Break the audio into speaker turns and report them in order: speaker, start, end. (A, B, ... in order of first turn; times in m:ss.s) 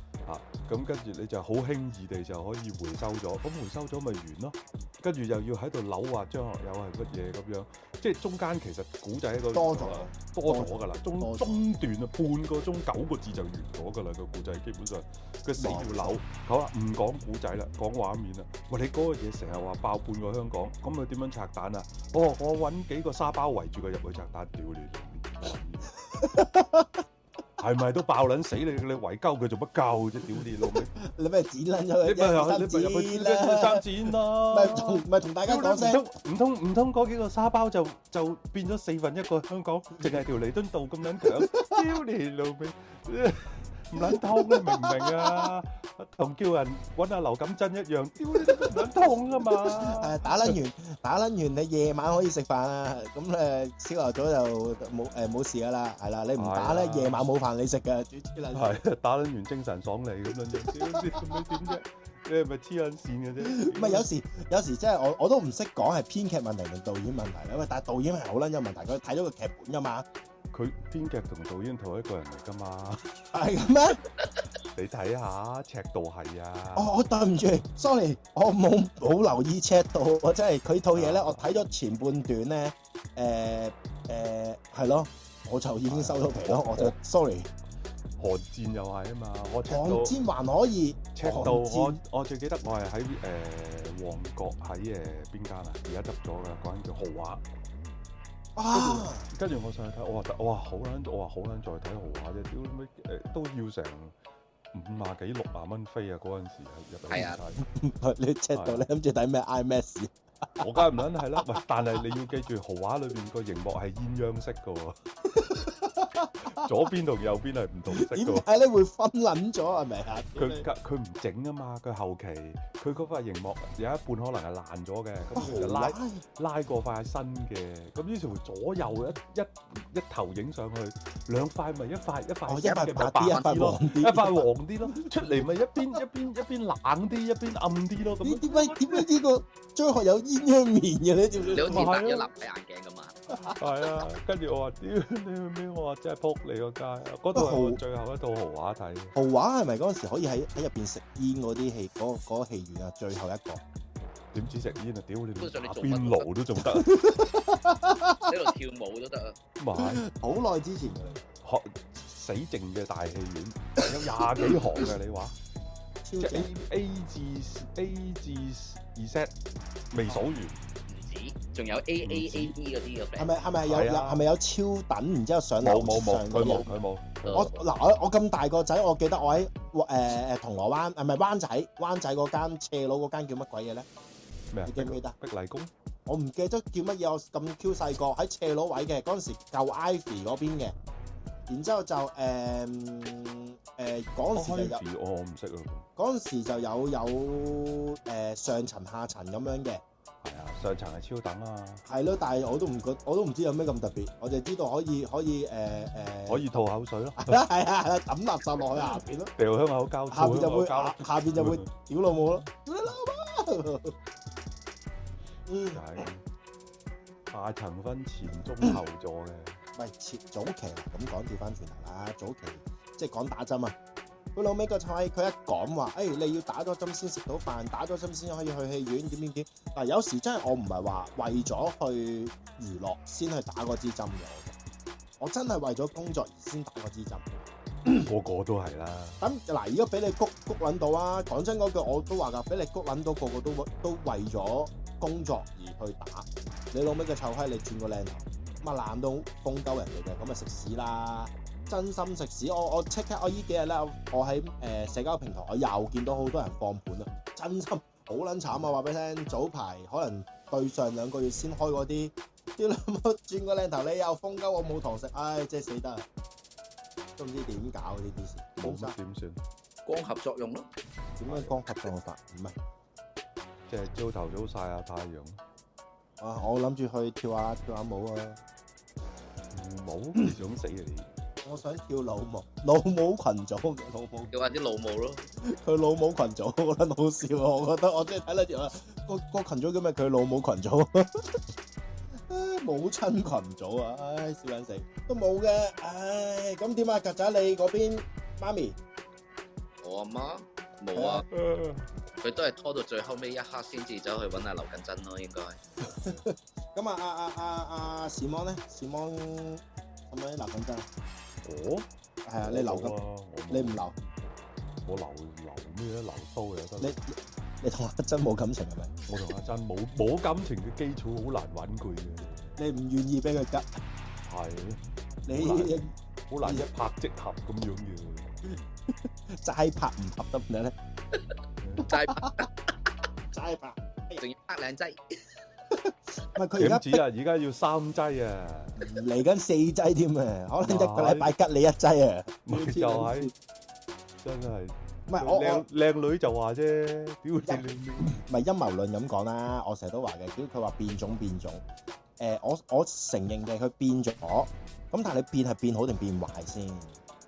0:00.2-0:25.9 A
0:09.5-0:11.6 B
0:15.6-0:16.2 B
0:26.1-0:27.0 B
0:27.6-0:30.9 A
0:30.6-0:36.0 B
0:32.0-0:50.6 A
0:41.4-0:41.8 B
0:43.9-0:45.5 B
0:48.3-0:48.9 B
0:49.6-0:58.8 B
0:56.3-0:57.2 A
0:58.5-1:04.1 A
1:00.8-1:01.8 B
1:03.4-1:10.0 B
1:10.5-1:13.1 A
1:13.3-1:14.0 B
1:14.7-1:17.0 A
1:16.7-1:27.5 B
1:20.9-1:21.6 A
1:25.9-1:26.9 A
1:28.2-1:30.2 A
1:29.6-1:32.0 B
1:31.1-1:37.4 A
1:38.6-1:39.3 B
1:38.7-1:44.1 A
1:44.7-1:47.6 A
1:47.1-1:47.4 C
1:47.6-1:51.6 B
1:48.5-1:48.8 A
1:50.6-1:55.0 A
1:55.3-1:56.7 B
1:56.5-1:58.5 A
1:57.9-2:00.7 B
2:00.4-2:19.1 A
2:05.4-2:06.2 B
2:12.5-2:15.1 B
2:18.2-2:21.9 B
2:21.4-2:23.2 C
2:21.6-2:22.3 A
2:23.3-2:23.6 B
2:23.6-2:29.1 A
2:27.3-2:27.8 B
2:29.1-2:33.6 B
2:34.3-2:37.0 A
2:35.4-2:36.3 C
2:36.6-2:38.3 B
2:38.2-2:39.4 C
2:39.6-2:40.0 A
2:39.7-2:41.2 B
2:41.4-2:45.3 A
2:44.2-2:44.5 B
2:46.0-2:46.5 B
2:46.2-2:49.3 A
2:49.9-2:50.6 A
2:50.9-2:53.4 C
2:52.0-2:52.5 A
2:53.2-2:56.7 B
2:53.6-2:54.2 A
2:55.6-2:57.2 A
2:57.2-2:57.6 C
2:57.3-3:03.9 B
3:04.5-3:05.7 A
3:04.6-3:05.2 B
3:06.0-3:10.7 B
3:11.5-3:14.8 B
3:14.3-3:15.9 A
3:16.0-3:19.8 B
3:20.2-3:21.8 A
3:21.8-3:26.4 B
3:26.3-3:27.4 A
3:27.2-3:29.3 B
3:29.4-3:31.6 A
3:30.1-3:34.0 B
3:35.5-3:36.0 B
3:35.7-3:36.2 A
3:37.3-3:39.6 A
3:39.8-3:43.7 B
3:44.3-3:54.6 B
3:55.2-3:57.2 B
3:57.9-3:59.2 A
3:59.2-4:26.1 B
4:27.2-4:28.9 B
4:28.6-4:29.4 A
4:29.8-4:30.7 C
4:31.2-4:32.6 B
4:31.2-4:31.6 A
4:33.7-4:35.4 A
4:36.2-4:38.4 B
4:39.5-4:41.1 A
4:41.4-4:44.3 B
4:44.3-4:45.3 C
4:45.4-4:51.4 B
4:52.3-4:58.8 B
4:59.8-5:01.2 C
5:00.9-5:01.2 B
5:01.3-5:01.9 A
5:02.2-5:05.6 C
5:05.8-5:10.8 B
5:06.0-5:06.2 A
5:11.4-5:11.9 A
5:12.2-5:13.9 B
5:12.4-5:13.9 A
5:14.8-5:17.0 A
5:16.8-5:19.0 B
5:19.1-5:22.6 A
5:22.6-5:23.8 B
5:24.2-5:28.3 A
5:25.2-5:25.9 B
5:26.4-5:26.7 B
5:28.4-5:30.7 B
5:31.6-5:31.9 A
5:31.8-5:32.5 C
5:31.8-5:32.5 B
5:33.3-5:34.2 B
5:34.2-5:35.0 C
5:35.7-5:37.0 B
5:36.6-5:38.8 A
5:38.8-5:43.3 B
5:40.6-5:41.3 A
5:42.5-5:43.3 A
5:44.2-5:48.2 A
5:45.1-5:45.6 B
5:47.4-5:51.6 B
5:52.2-5:57.0 B